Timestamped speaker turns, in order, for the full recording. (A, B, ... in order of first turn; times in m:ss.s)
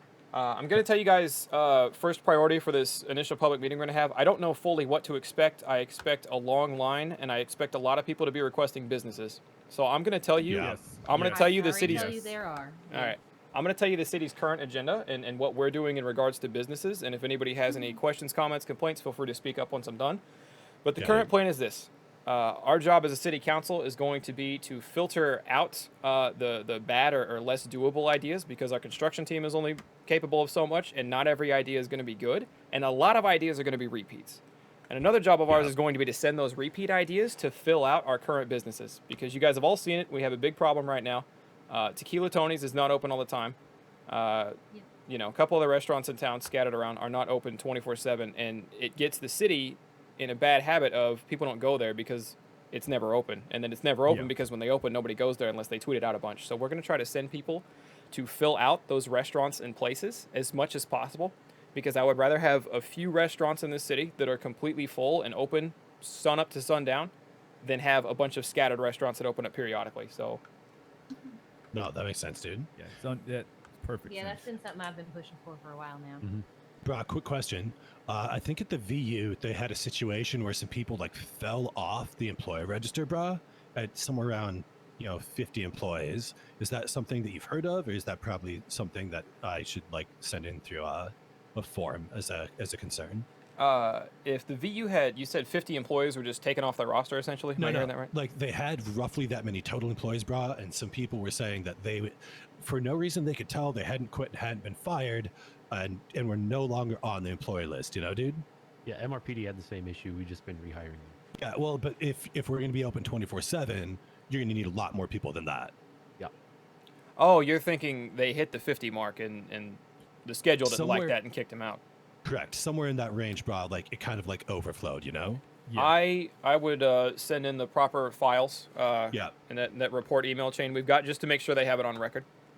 0:00.3-0:12.3 A
0:10.4-0:10.8 B
0:10.6-0:12.3 C
0:11.3-0:13.2 D
0:12.9-0:20.2 A
0:20.8-0:43.6 A
0:21.0-0:21.3 B
0:44.1-1:10.4 A
1:11.7-1:12.7 B
1:12.8-1:14.6 C
1:14.0-1:16.2 D
1:16.8-1:33.3 B
1:33.6-1:38.1 A
1:37.6-1:48.4 B
1:48.8-1:51.2 E
1:51.4-1:55.7 B
1:57.2-2:01.8 A
2:00.6-2:01.2 B
2:02.2-2:05.6 B
2:05.6-2:06.0 C
2:05.8-2:12.3 A